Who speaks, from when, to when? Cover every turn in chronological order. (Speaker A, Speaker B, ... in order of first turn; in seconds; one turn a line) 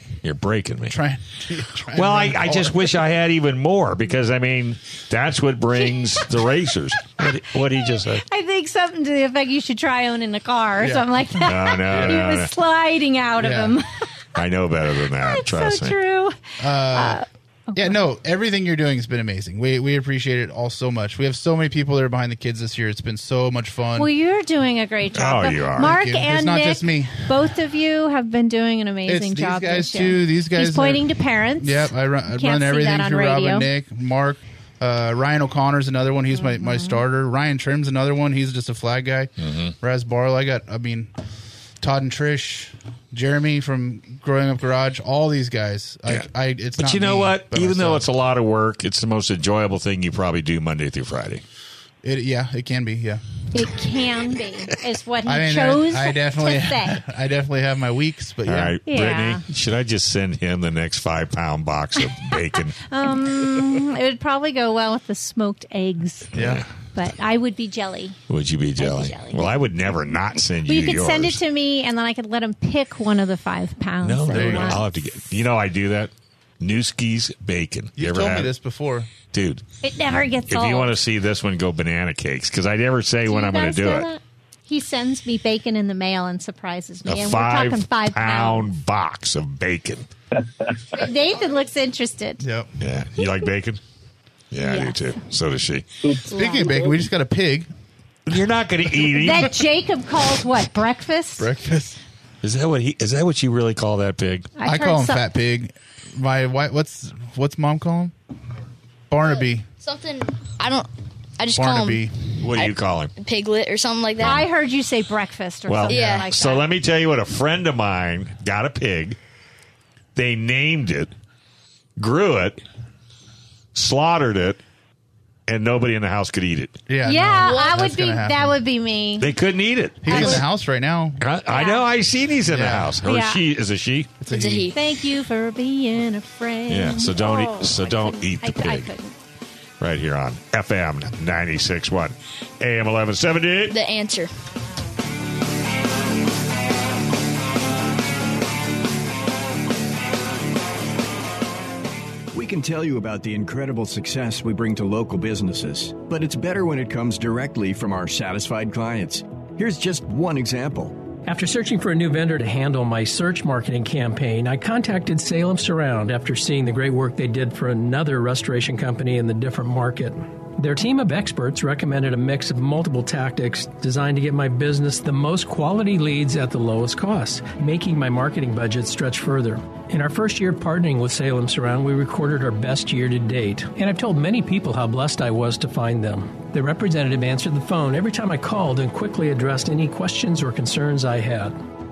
Speaker A: 0.2-0.9
Speaker B: 0.9-2.8
Speaker A: 1.9-8.2
Speaker C: 8.2-13.8
Speaker B: 10.8-11.2
Speaker A: 11.4-12.5
Speaker B: 13.4-13.8
Speaker A: 14.4-16.0
Speaker C: 15.2-17.9
Speaker B: 16.6-17.2
Speaker B: 17.8-24.1
Speaker C: 23.9-33.7
Speaker A: 25.1-25.9
Speaker B: 25.8-27.4
Speaker B: 29.1-31.1
Speaker B: 31.6-41.1
Speaker C: 36.3-37.0
Speaker A: 39.4-39.7
Speaker B: 41.8-48.1
Speaker A: 46.1-51.4
Speaker B: 52.0-53.2
Speaker C: 53.5-57.0
Speaker B: 55.2-58.8
Speaker A: 58.5-62.7
Speaker C: 58.9-59.4
Speaker C: 62.3-66.3
Speaker A: 66.3-66.6
Speaker B: 66.4-66.6
Speaker C: 66.9-68.2
Speaker A: 68.3-71.4
Speaker C: 68.8-69.5
Speaker C: 70.7-74.8
Speaker A: 74.0-78.5
Speaker B: 74.3-74.8
Speaker B: 78.0-79.1
Speaker A: 79.3-79.6
Speaker C: 79.8-80.9
Speaker A: 80.5-84.1
Speaker C: 83.3-88.7
Speaker A: 87.1-90.1
Speaker C: 90.9-92.4
Speaker B: 92.4-92.7
Speaker A: 92.8-93.8
Speaker A: 94.5-95.9
Speaker C: 94.6-95.0
Speaker B: 96.1-97.7
Speaker C: 96.4-96.7
Speaker A: 98.3-99.5
Speaker C: 99.2-101.5
Speaker B: 101.4-102.0
Speaker A: 102.4-104.5
Speaker C: 104.6-105.3
Speaker B: 104.6-108.1
Speaker B: 109.1-109.7
Speaker D: 109.8-112.0
Speaker B: 111.5-112.3
Speaker A: 112.4-113.1
Speaker D: 112.5-114.4
Speaker C: 114.2-116.7
Speaker A: 115.7-119.2
Speaker D: 115.9-116.3
Speaker A: 120.2-121.1
Speaker A: 122.0-122.6
Speaker A: 123.8-124.6
Speaker A: 125.5-126.8
Speaker B: 126.9-128.6
Speaker C: 127.0-129.3
Speaker D: 127.5-127.8
Speaker A: 129.2-130.4
Speaker B: 130.0-131.2
Speaker C: 130.1-130.4
Speaker A: 131.2-134.2
Speaker C: 131.5-131.8
Speaker B: 132.5-132.9
Speaker C: 133.0-133.4
Speaker B: 134.2-134.7
Speaker D: 134.3-134.8
Speaker C: 134.7-139.2
Speaker A: 136.7-138.9
Speaker A: 139.8-143.8
Speaker D: 143.7-144.3
Speaker E: 152.3-161.0
Speaker F: 161.3-191.6